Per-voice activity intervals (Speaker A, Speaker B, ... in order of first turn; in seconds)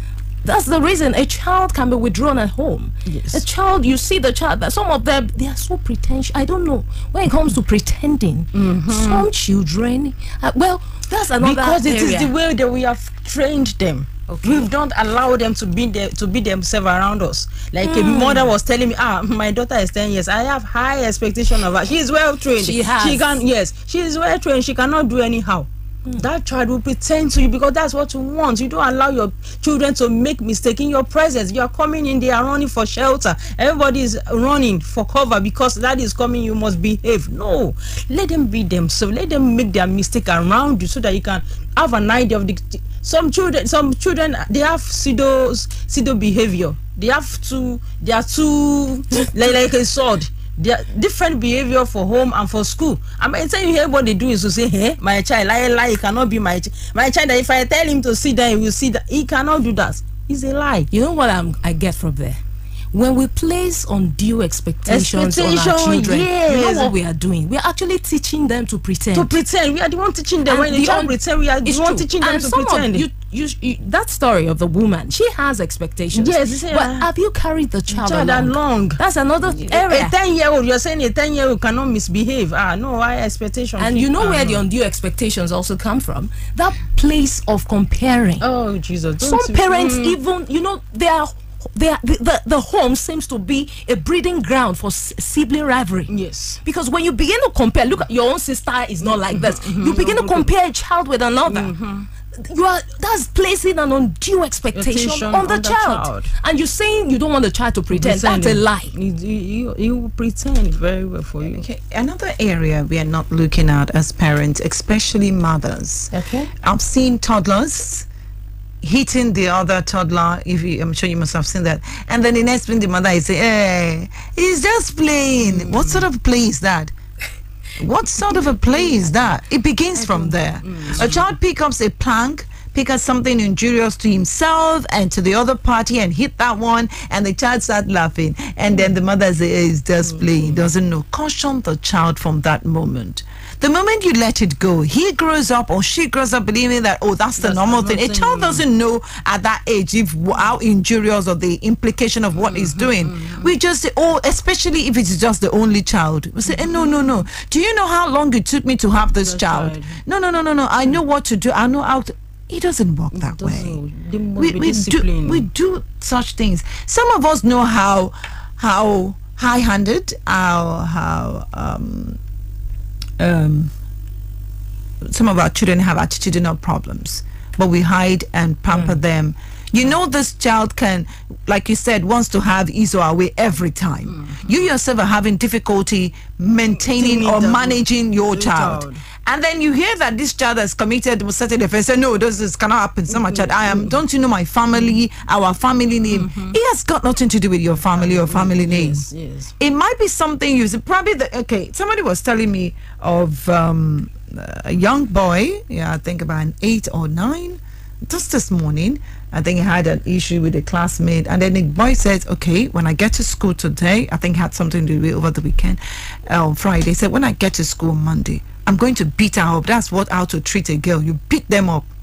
Speaker A: 0.4-12.3, 14.3-14.7, 17.8-18.5, 22.6-23.4, 60.9-62.4, 62.9-69.3, 70.5-80.1, 83.8-88.4, 89.2-96.1, 96.6-101.7, 102.3-108.9, 116.1-116.5, 130.1-130.4
Speaker B: 3.0-3.4, 8.5-9.3, 11.4-60.9, 64.9-66.9, 69.1-73.0, 76.1-77.1, 77.9-79.0, 79.5-84.6, 88.4-90.2, 96.1-96.6, 99.0-100.5, 101.5-102.1, 104.7-106.3, 107.9-111.6, 125.4-126.0, 130.6-131.3, 140.0-140.7, 147.4-148.7, 152.4-153.5, 156.5-157.0, 159.2-160.0, 163.1-165.5, 184.1-184.7, 186.7-189.0, 193.1-194.0, 196.0-196.6, 197.8-199.5
Speaker C: 111.4-118.1, 118.8-126.9, 127.8-163.8, 164.4-172.2, 173.2-173.7, 175.0-199.0, 199.6-221.9